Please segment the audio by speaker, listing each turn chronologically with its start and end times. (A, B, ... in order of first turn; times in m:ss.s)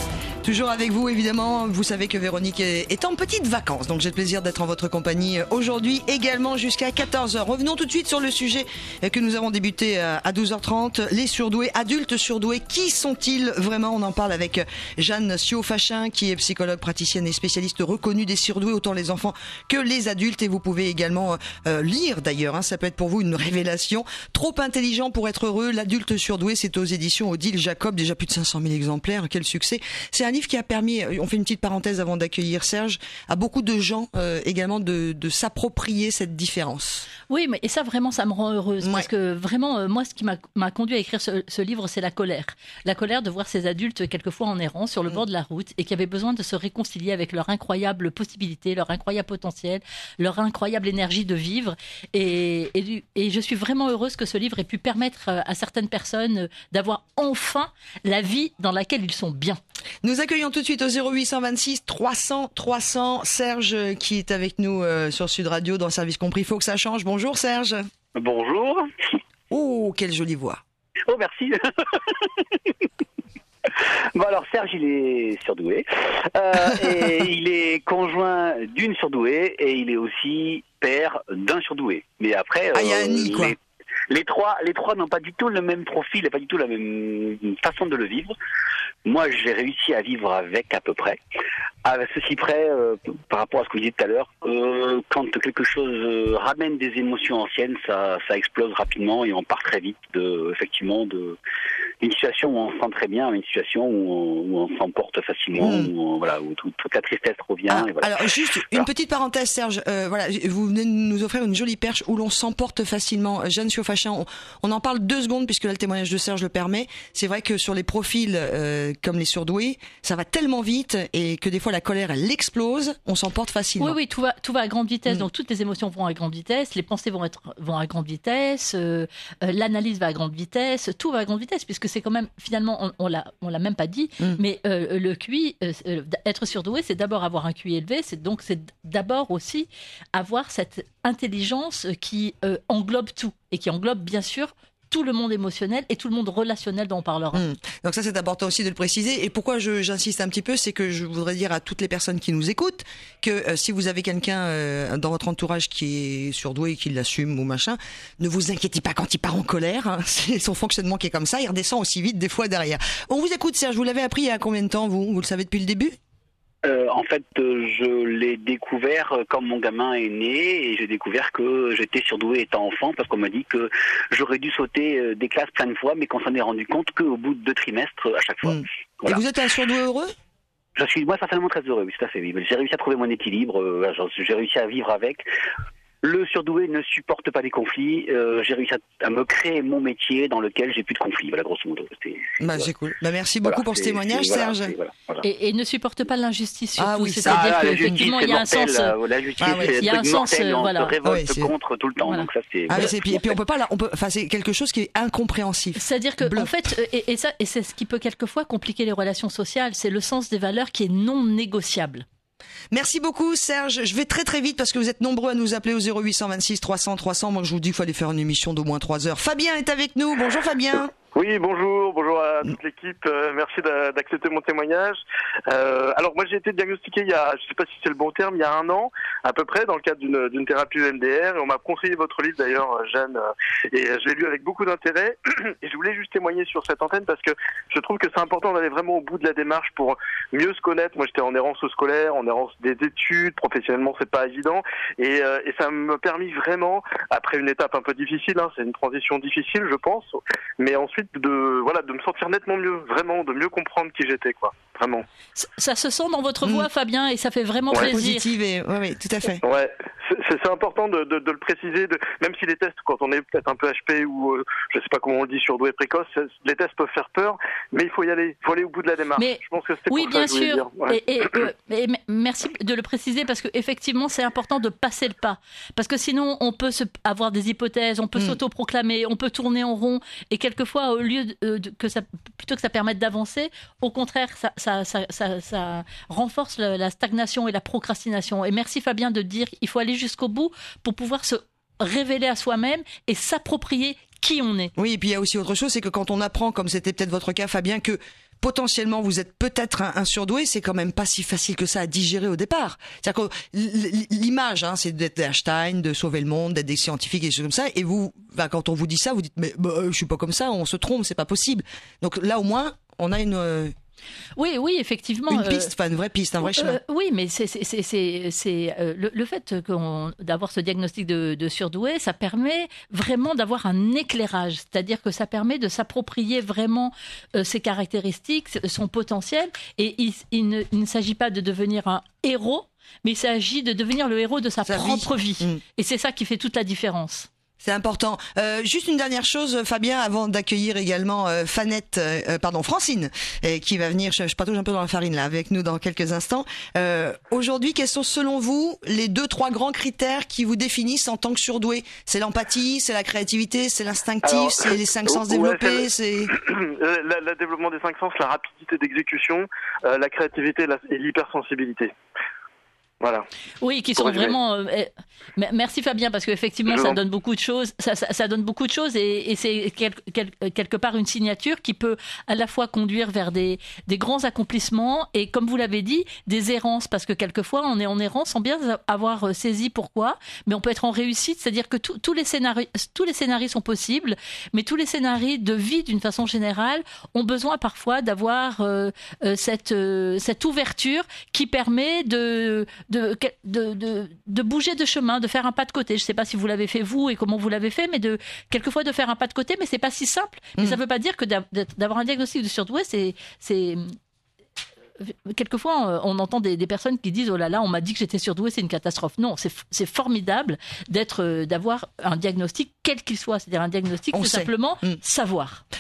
0:00.4-0:37.1 A
0:37.3-0:59.6 B
0:38.8-0:39.1 A
1:00.0-1:07.8 A
1:08.2-1:09.2 C
1:09.5-1:10.6 A
1:11.1-1:12.7 C
1:13.7-1:23.6 C
1:22.7-1:23.6 A
1:24.1-1:28.4 C
1:29.0-1:31.2 C
1:31.8-1:41.4 C
1:42.0-1:48.1 C
1:45.6-1:45.9 A
1:47.7-2:04.0 A
2:03.8-2:27.4 B
2:27.3-2:46.0 A
2:46.6-2:59.2 C
2:58.4-3:00.1 A
3:00.8-3:05.2 C
3:06.0-3:12.7 C
3:12.4-3:14.7 A
3:13.4-3:15.2 C
3:15.2-3:19.0 B
3:16.8-3:18.0 A
3:17.3-3:23.4 C
3:19.4-3:19.8 A
3:19.6-3:20.9 B
3:21.0-3:21.5 A
3:22.7-3:26.6 A
3:25.8-3:32.0 B
3:32.7-3:40.9 A
3:41.2-4:15.0 D
4:15.4-4:18.3 B
4:17.8-4:19.4 A
4:19.4-4:31.4 D
4:29.2-4:54.7 B
4:54.8-5:13.7 A
5:14.4-5:15.7 B
5:15.3-5:16.8 A
5:16.4-5:37.3 B
5:34.6-5:35.6 A
5:37.6-5:56.3 A
5:54.2-6:01.9 D
6:03.0-6:03.3 D
6:03.6-6:44.0 B
6:04.0-6:04.3 D
6:06.7-6:07.0 D
6:45.0-6:55.6 B
6:54.1-6:55.0 A